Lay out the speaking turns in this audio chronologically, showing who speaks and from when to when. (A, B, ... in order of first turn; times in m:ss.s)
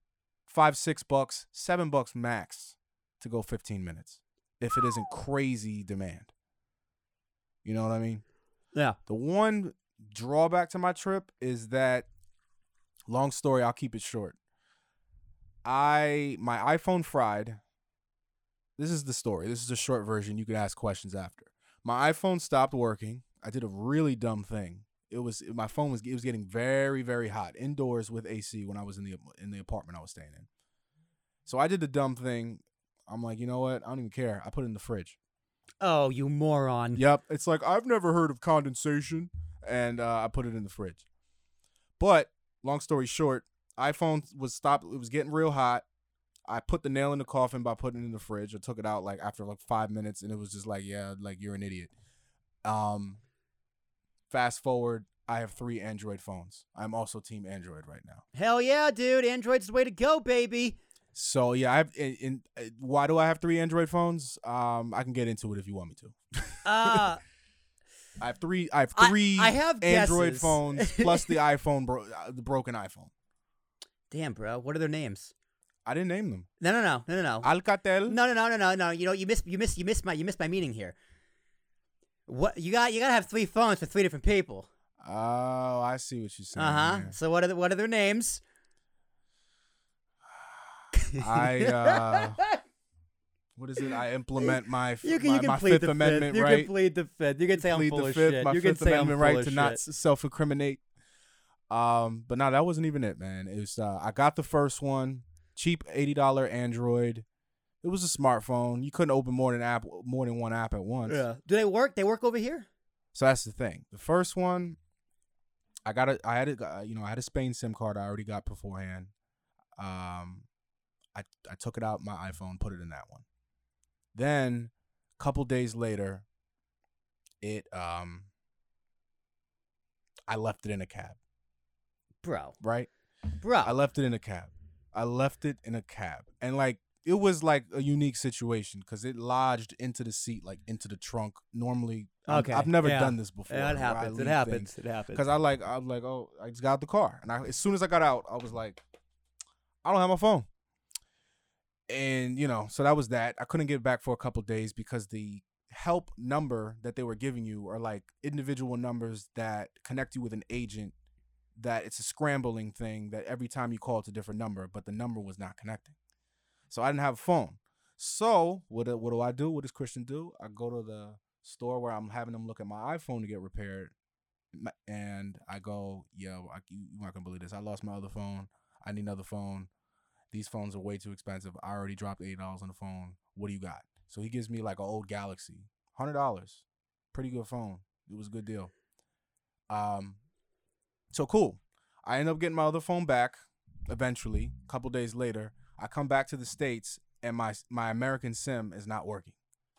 0:00.5-0:06.3 A
0:07.6-0:08.2 A
0:09.1-0:12.1 A
0:13.1-0:14.4 A
0:15.6-0:17.6 A
0:18.8-0:30.5 A
0:31.5-0:35.2 A
0:35.8-0:37.0 B
0:37.0-0:41.0 A
0:42.0-0:45.8 A
0:46.5-0:51.9 A
0:52.6-0:53.2 A
0:54.3-0:58.2 A
0:58.3-1:00.8 B
1:01.1-1:07.1 A
1:06.6-1:07.2 B
1:08.2-1:13.1 A
1:09.0-1:11.4 B
1:14.1-1:15.3 B
1:15.9-1:16.5 A
1:16.6-1:17.5 B
1:17.4-1:18.2 A
1:18.1-1:21.0 B
1:22.3-1:24.7 B
1:25.0-1:27.2 A
1:26.6-1:28.4 B
1:30.3-1:32.4 A
1:30.9-1:32.6 B
1:33.6-1:36.7 A
1:33.9-1:39.8 B
1:37.6-1:40.8 A
1:41.7-1:47.2 A
1:47.8-1:51.2 A
1:51.1-1:52.7 B
1:53.1-1:54.8 A
1:55.8-1:59.1 A
1:59.8-2:00.5 A
2:01.1-2:03.2 A
2:04.1-2:06.2 A
2:07.4-2:08.3 A
2:10.3-2:11.2 A
2:12.2-2:12.6 B
2:12.6-2:12.9 A
2:13.4-2:13.7 B
2:13.6-2:28.8 A
2:22.3-2:25.3 B
2:29.8-2:30.5 A
2:31.9-2:40.9 A
2:41.6-2:46.0 A
2:46.7-2:53.9 A
2:54.5-2:59.7 A
3:00.3-3:08.7 A
3:09.7-3:10.2 A
3:11.1-3:19.4 A